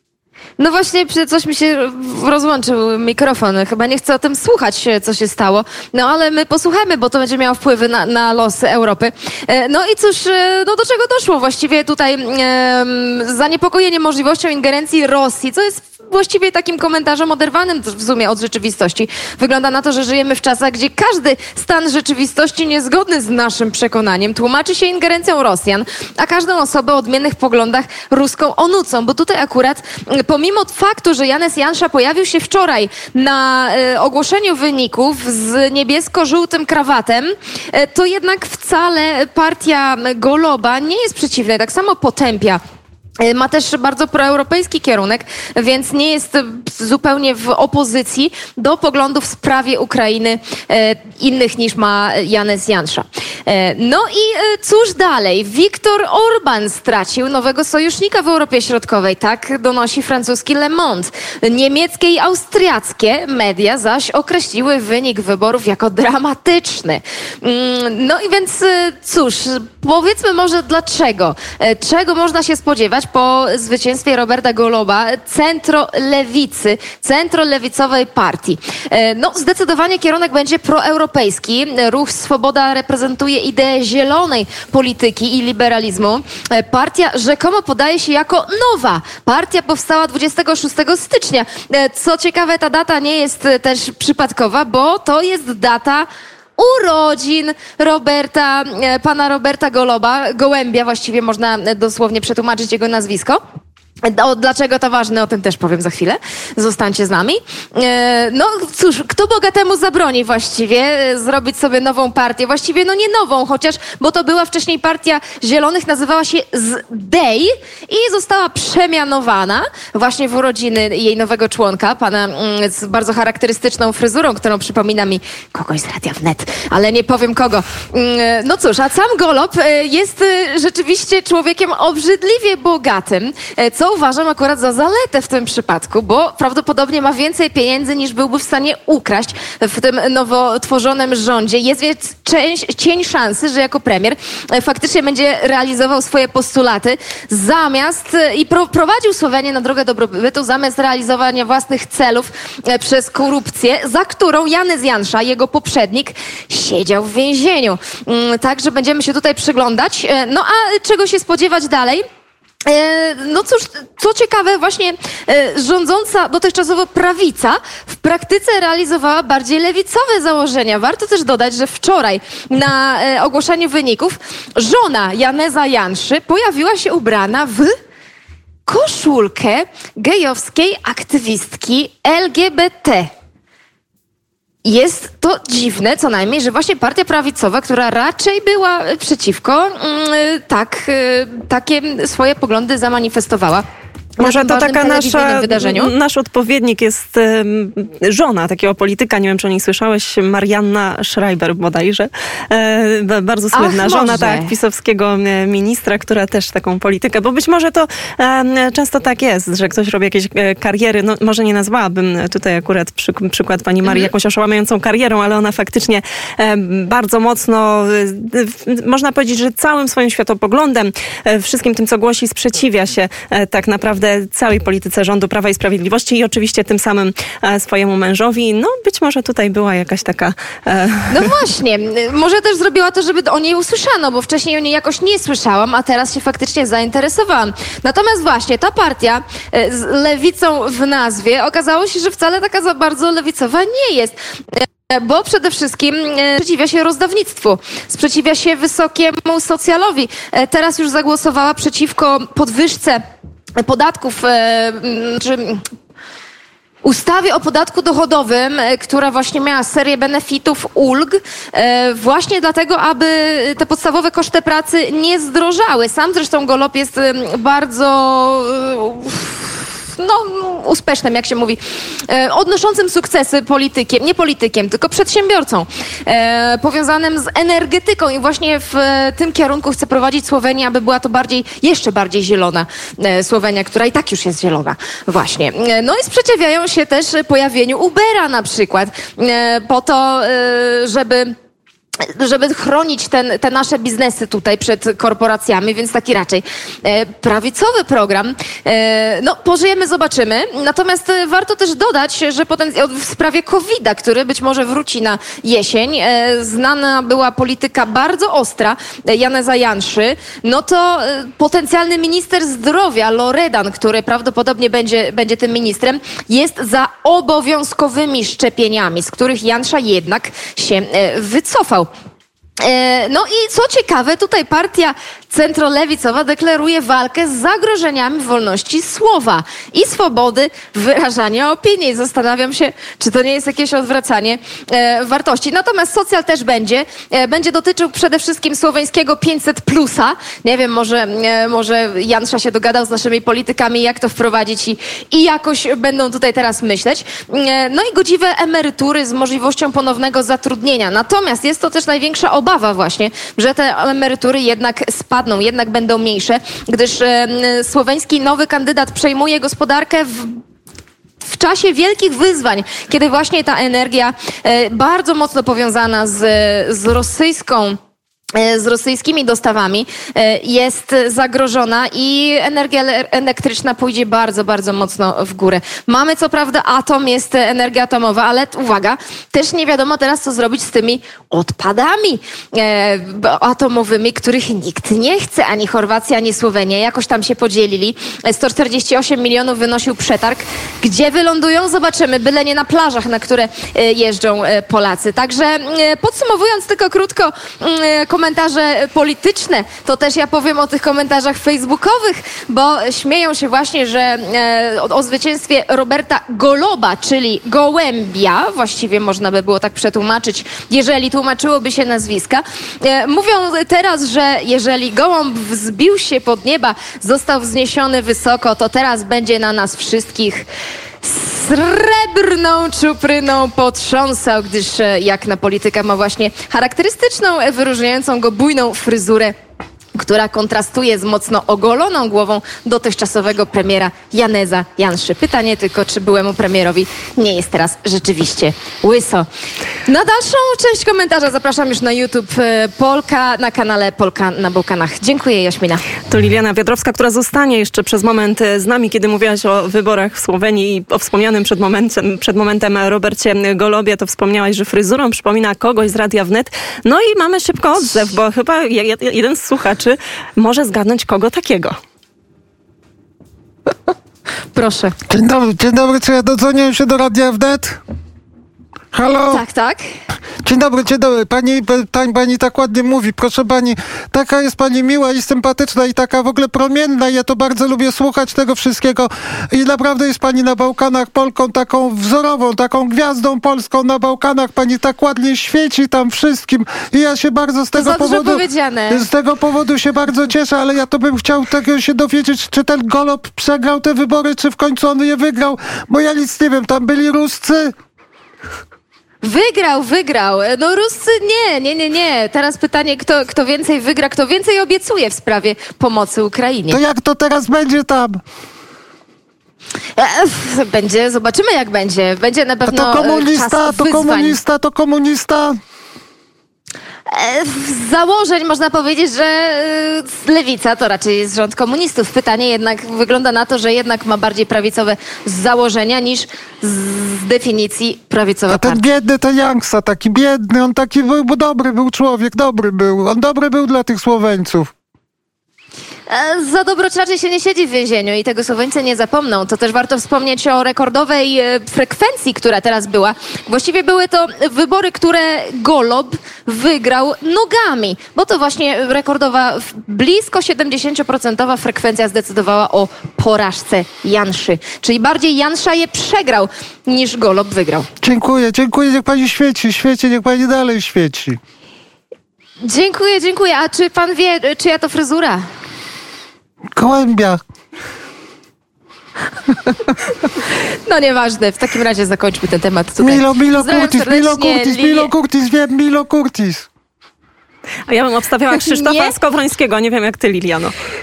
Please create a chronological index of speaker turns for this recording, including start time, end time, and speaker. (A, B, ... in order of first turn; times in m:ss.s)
0:00.6-0:42.6 A
0:43.2-1:43.4 A
1:44.0-2:42.0 A
2:42.6-2:57.7 A
2:58.6-3:03.1 A
3:04.6-3:13.6 A
3:14.2-3:15.9 A
3:14.2-3:51.3 B
3:23.5-3:24.5 A
3:33.8-3:34.1 A
3:51.1-4:13.0 A
4:13.6-4:15.6 A
4:16.8-4:51.3 A
4:52.0-5:21.9 A
5:22.6-6:00.4 A
6:01.2-6:07.8 A
6:08.3-7:00.5 A
7:01.0-7:09.3 A
7:10.0-7:19.2 A
7:19.8-7:25.8 A
7:26.1-7:41.7 B
7:44.5-7:44.9 A
7:45.1-7:47.8 C
7:48.9-7:49.4 C
7:49.2-7:49.8 A
7:50.4-8:17.7 C
8:07.7-8:09.1 A
8:19.2-8:26.8 A
8:26.7-8:28.2 C
8:30.0-8:34.4 A
8:32.6-8:35.6 C
8:37.1-8:48.8 A
8:48.5-8:54.7 C
8:56.1-9:17.9 A
9:18.0-9:21.4 C
9:22.6-9:25.4 A
9:26.7-9:27.4 C
9:29.7-9:35.1 A
9:33.0-9:36.7 C
9:37.9-9:40.7 B
9:38.5-9:39.1 A